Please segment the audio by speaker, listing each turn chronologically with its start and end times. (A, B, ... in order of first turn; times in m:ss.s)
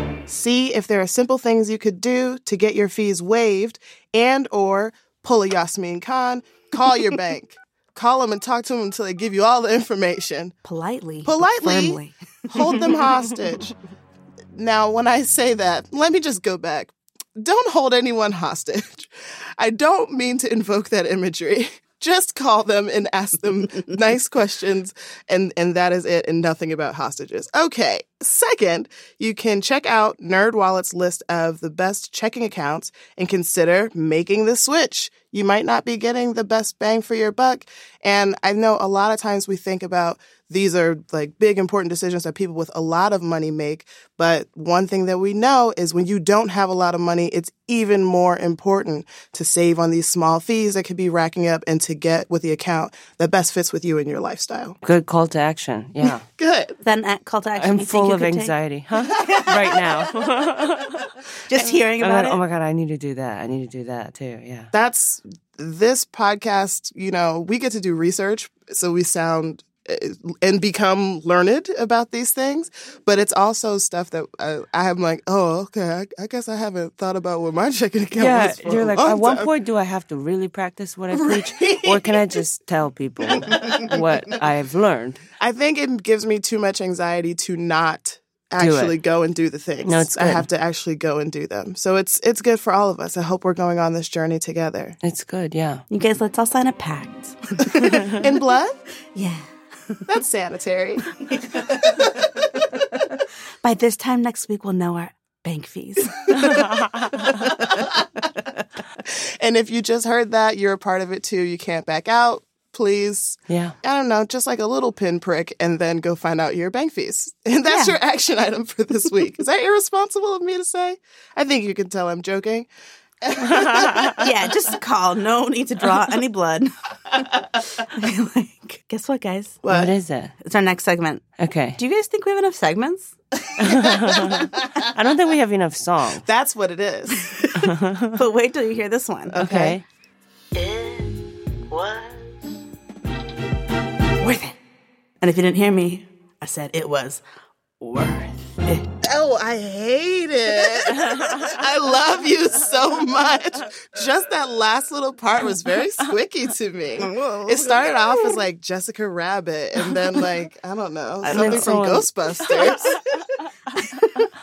0:00.3-0:10.5 A
0:10.6-0:12.8 B
0:11.2-0:13.7 A
0:14.5-0:54.8 A
0:54.8-0:56.2 C
0:56.0-0:56.7 A
0:56.8-0:58.5 B
0:57.6-1:04.7 C
0:59.2-0:59.7 B
1:01.5-1:02.4 B
1:04.7-1:19.5 A
1:18.2-1:25.2 C
1:21.1-1:22.4 A
1:23.3-1:24.4 A
1:25.4-1:35.0 A
1:28.6-1:28.9 C
1:29.8-1:30.5 C
1:35.0-1:35.8 C
1:35.9-1:38.2 B
1:38.1-1:38.8 A
1:39.1-1:40.0 B
1:40.1-1:42.6 A
1:41.3-1:42.0 B
1:42.8-1:48.4 B
1:46.4-1:47.4 C
1:47.7-1:48.0 A
1:49.0-2:02.7 A
1:53.5-1:53.7 C
1:57.7-1:58.0 B
2:03.2-2:04.3 A
2:03.4-2:04.2 C
2:04.2-2:09.6 B
2:09.6-2:09.9 A
2:09.7-2:10.3 C
2:10.4-2:11.2 B
2:11.4-2:11.8 C
2:11.8-2:13.1 B
2:13.6-2:16.2 C
2:13.6-2:14.6 A
2:16.2-2:17.3 A
2:17.1-2:19.4 B
2:17.5-2:18.2 C
2:19.3-2:19.8 A
2:19.3-2:19.8 C
2:21.7-2:22.1 A
2:24.2-2:24.6 B
2:25.2-2:27.2 B
2:27.8-2:28.9 B
2:29.0-2:43.0 A
2:31.1-2:31.5 C
2:37.0-2:38.4 B
2:41.2-2:41.8 B
2:41.3-2:42.1 C
2:42.5-2:43.0 B
2:43.7-2:44.3 B